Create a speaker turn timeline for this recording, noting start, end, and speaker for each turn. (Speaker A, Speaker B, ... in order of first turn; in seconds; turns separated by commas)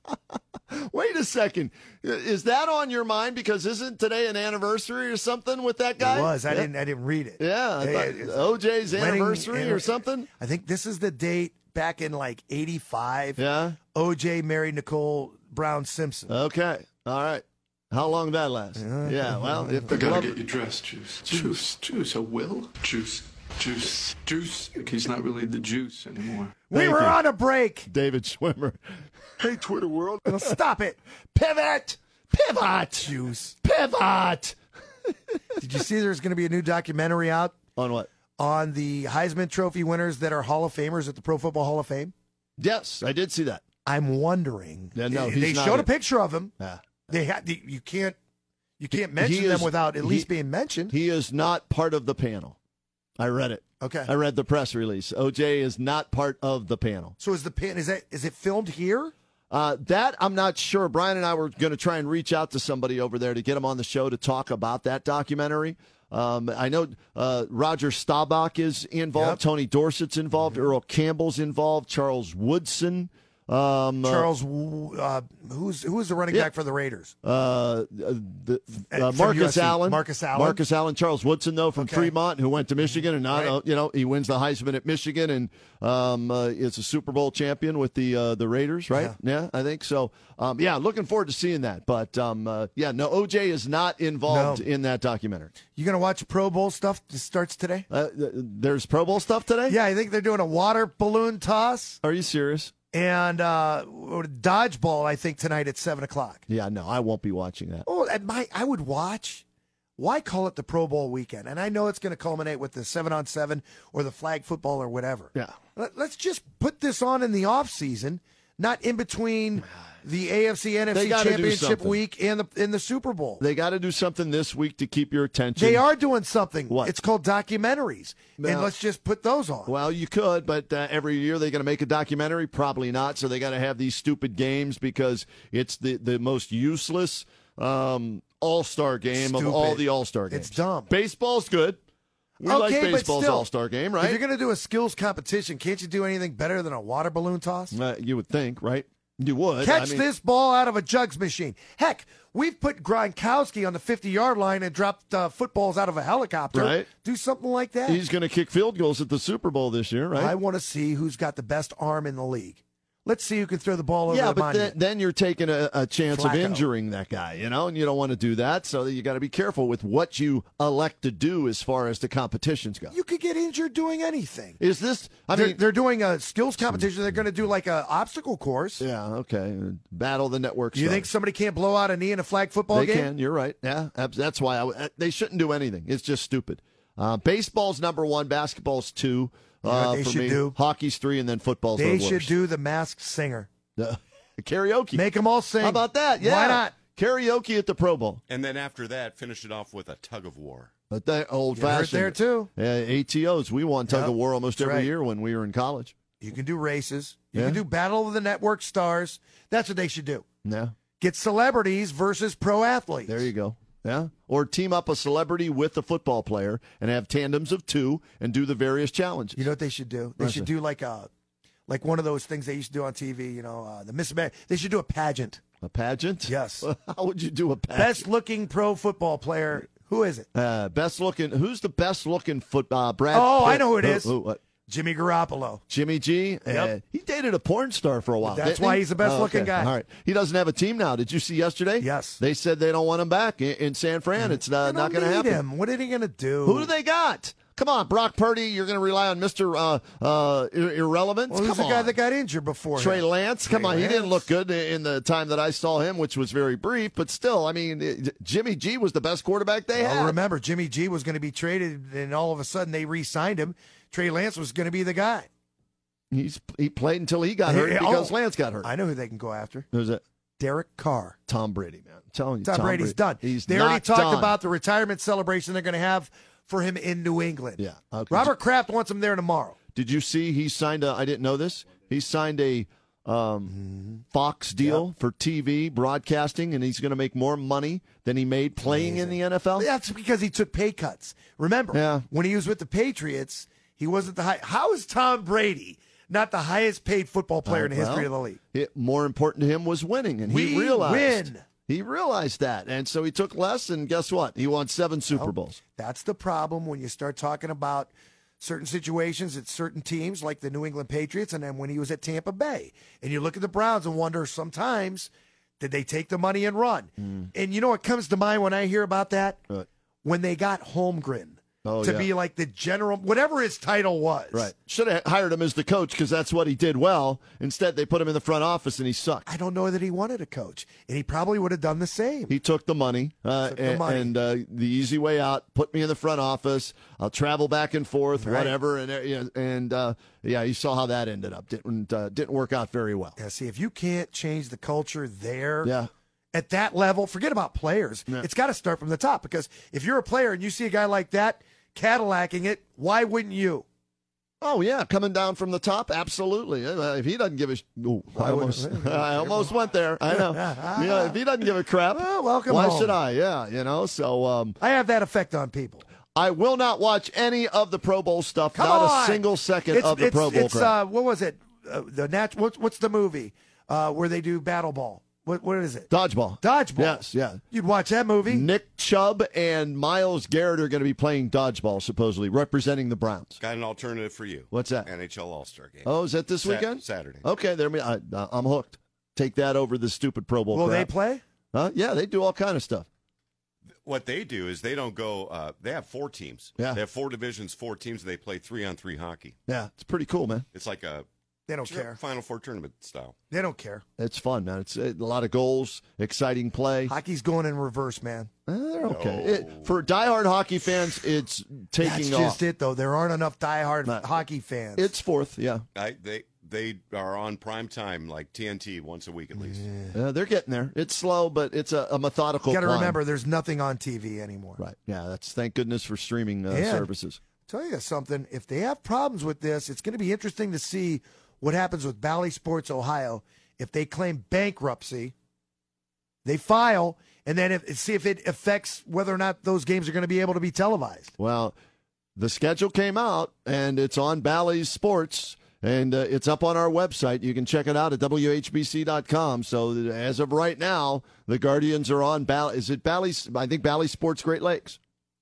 Speaker A: 0.7-6.7, Speaker B: 6.0-13.4, Speaker A: 7.4-10.3, Speaker A: 13.4-13.8, Speaker B: 13.9-16.4, Speaker A: 16.3-20.4, Speaker B: 18.8-20.0, Speaker C: 20.1-26.5, Speaker A: 21.3-21.6, Speaker B: 26.7-27.9, Speaker A: 26.7-27.2, Speaker A: 27.9-28.8, Speaker A: 29.4-30.5, Speaker B: 30.2-33.6, Speaker A: 33.6-34.6, Speaker B: 35.6-37.6, Speaker A: 37.8-38.1, Speaker B: 38.4-42.1, Speaker A: 42.6-43.6, Speaker B: 43.8-46.5, Speaker A: 44.9-45.9, Speaker B: 47.1-48.1, Speaker B: 48.8-51.0, Speaker A: 48.9-50.3, Speaker A: 50.9-52.6, Speaker A: 53.2-57.1, Speaker B: 53.8-54.1, Speaker B: 57.2-59.1, Speaker A: 59.5-74.3, Speaker B: 69.2-69.4, Speaker B: 74.0-77.1, Speaker A: 77.2-95.5, Speaker B: 78.9-80.6, Speaker B: 81.8-82.1, Speaker B: 83.0-83.6, Speaker B: 88.9-89.2, Speaker B: 94.2-94.7, Speaker B: 95.7-97.9, Speaker A: 97.9-99.8, Speaker B: 99.7-102.0, Speaker A: 102.0-102.7, Speaker B: 102.9-106.4, Speaker A: 106.5-107.9, Speaker B: 107.8-109.4, Speaker B: 110.0-123.4, Speaker A: 120.9-122.0, Speaker A: 123.4-125.8, Speaker B: 125.6-129.7, Speaker A: 128.4-128.7, Speaker A: 129.7-141.8, Speaker B: 139.1-140.9, Speaker A: 142.4-144.2, Speaker B: 142.4-143.5, Speaker B: 144.0-147.8, Speaker A: 147.7-150.1, Speaker B: 149.6-158.0, Speaker A: 156.5-156.9, Speaker A: 157.9-160.4, Speaker B: 160.1-164.8, Speaker A: 164.1-172.9, Speaker B: 166.1-166.7, Speaker B: 172.9-174.6, Speaker A: 174.6-175.6, Speaker B: 175.3-178.9, Speaker A: 176.6-176.9, Speaker A: 178.8-181.1, Speaker B: 180.7-183.1, Speaker A: 182.7-192.3, Speaker B: 189.7-190.6, Speaker B: 191.8-193.5, Speaker A: 193.8-195.0, Speaker B: 194.9-196.7, Speaker A: 195.6-198.2, Speaker D: 198.3-200.7, Speaker A: 200.9-205.9, Speaker B: 201.5-202.5, Speaker B: 203.9-204.9, Speaker B: 206.2-210.2, Speaker A: 207.3-207.6, Speaker A: 210.4-210.8, Speaker B: 211.0-213.2, Speaker A: 213.1-219.5, Speaker B: 219.4-221.1, Speaker A: 220.2-220.5, Speaker B: 221.7-225.4, Speaker A: 225.6-228.1, Speaker B: 226.3-226.7, Speaker B: 227.7-230.3, Speaker A: 230.3-234.4, Speaker B: 233.1-234.1, Speaker B: 234.7-235.6, Speaker A: 235.7-245.4, Speaker B: 236.5-236.7, Speaker B: 238.2-239.7, Speaker B: 241.8-242.2, Speaker B: 244.2-246.7, Speaker A: 246.4-251.9, Speaker B: 251.3-254.3, Speaker A: 252.8-260.2, Speaker B: 259.8-265.3, Speaker A: 266.1-268.7, Speaker B: 267.4-269.7, Speaker A: 269.7-270.0, Speaker B: 270.4-271.2, Speaker A: 271.3-274.4, Speaker B: 272.4-279.6, Speaker A: 277.6-278.3, Speaker A: 279.8-283.6, Speaker B: 283.5-284.0, Speaker A: 284.1-289.7, Speaker B: 288.7-298.4, Speaker A: 291.7-292.1, Speaker A: 297.4-305.6, Speaker B: 300.3-301.4, Speaker B: 305.1-319.4, Speaker A: 317.0-317.3, Speaker B: 320.0-324.5, Speaker A: 321.6-322.1, Speaker A: 324.3-329.3, Speaker B: 329.2-332.4, Speaker A: 332.3-343.2, Speaker B: 333.4-334.1, Speaker B: 338.1-338.6, Speaker B: 343.2-345.7, Speaker A: 345.6-345.9, Speaker B: 346.3-353.6, Speaker A: 354.4-364.6, Speaker B: 358.1-359.5, Speaker B: 360.1-361.2, Speaker B: 361.9-363.0, Speaker B: 364.6-365.9, Speaker A: 366.1-370.8, Speaker B: 368.5-375.9, Speaker A: 375.9-377.4, Speaker B: 376.4-378.5, Speaker A: 378.2-383.4, Speaker D: 383.4-387.2, Speaker A: 384.5-384.9, Speaker A: 385.9-390.9, Speaker B: 390.5-391.2, Speaker A: 391.5-392.9, Speaker D: 393.8-399.4, Speaker A: 399.5-400.4, Speaker D: 400.5-401.1, Speaker B: 401.5-402.0, Speaker D: 401.6-403.1, Speaker B: 403.3-403.8, Speaker A: 404.0-406.9, Speaker B: 406.9-408.3, Speaker A: 408.5-412.4, Speaker D: 408.9-409.8, Speaker B: 411.8-414.9, Speaker A: 413.9-414.2, Speaker A: 414.8-415.6, Speaker D: 415.8-419.7, Speaker B: 419.4-419.9, Speaker A: 419.9-423.0, Speaker B: 422.5-424.6, Speaker A: 424.6-427.2, Speaker B: 426.5-426.9, Speaker B: 427.5-435.1, Speaker B: 436.2-441.1, Speaker A: 441.2-441.5, Speaker A: 442.2-454.8